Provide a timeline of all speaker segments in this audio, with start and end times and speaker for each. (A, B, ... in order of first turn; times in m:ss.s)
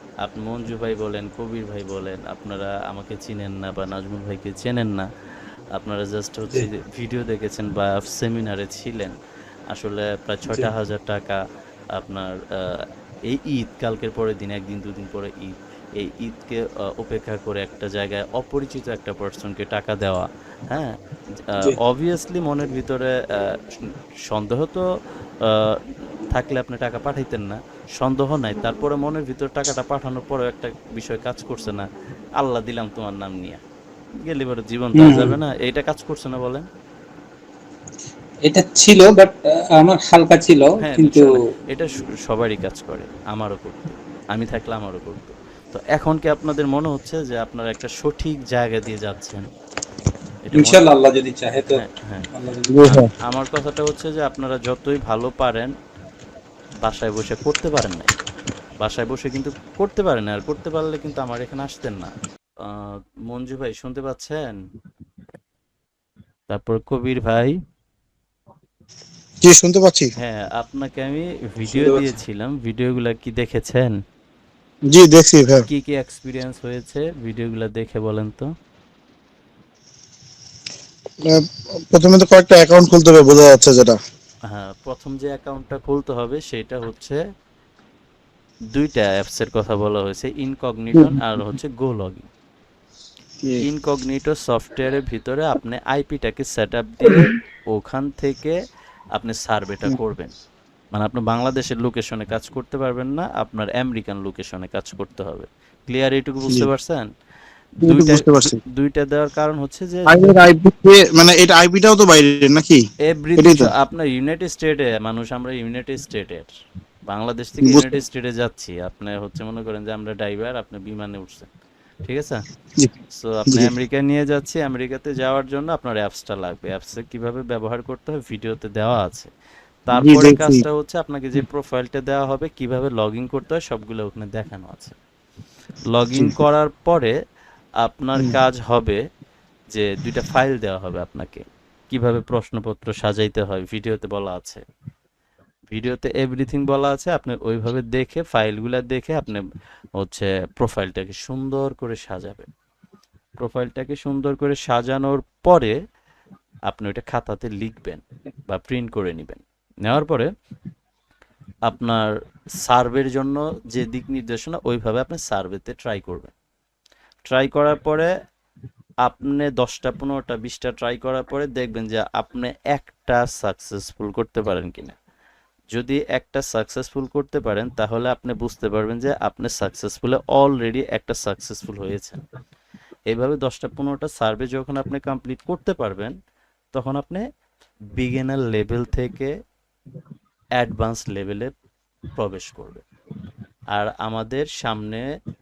0:00.2-0:05.1 A
0:05.8-0:09.2 A
0:09.7-0:11.4 A
0:12.0-0:21.0 A
0:21.5-0:24.8 A
0:25.4-0:25.8 A
0:26.3-0:31.8 A
0:32.4-0:33.6 A
0:34.2-0:36.7 A
0:35.0-0:35.4 B
0:38.5-0:41.3 B
0:40.8-0:49.4 A
0:50.4-0:50.8 A
0:50.6-0:51.8 B
0:51.8-0:52.3 A
0:52.3-0:52.7 B
0:52.7-0:53.1 C
0:52.8-0:55.7 A
0:56.8-0:58.1 A
0:58.8-1:02.1 A
1:02.6-1:04.6 A
1:06.5-1:07.6 A
1:09.4-1:10.1 C
1:10.2-1:14.0 A
1:11.7-1:12.0 B
1:14.9-1:15.6 C
1:15.7-1:18.5 A
1:21.2-1:24.0 C
1:24.5-1:27.2 A
1:28.7-1:32.3 A
1:33.6-1:38.6 A
1:39.2-1:40.3 A
1:40.9-1:47.1 A
1:47.8-1:48.6 C
1:47.8-1:50.1 A
1:50.1-1:52.8 C
1:53.0-1:56.5 A
1:53.4-1:53.7 C
1:57.1-2:01.5 A
1:57.6-1:58.0 C
2:02.0-2:02.4 A
2:03.2-2:09.3 A
2:09.9-2:15.0 A
2:10.0-2:10.6 C
2:15.9-2:17.1 A
2:17.8-2:19.0 A
2:19.7-2:24.6 A
2:25.7-2:29.4 A
2:30.0-2:32.5 A
2:33.4-2:35.8 A
2:36.7-2:40.3 A
2:41.7-2:46.3 A
2:47.3-2:48.1 A
2:49.0-2:54.9 A
2:55.7-3:02.2 A
3:03.1-3:06.1 A
3:06.7-3:07.2 A
3:08.0-3:09.3 A
3:10.6-3:11.5 A
3:12.2-3:12.8 A
3:13.7-3:15.0 A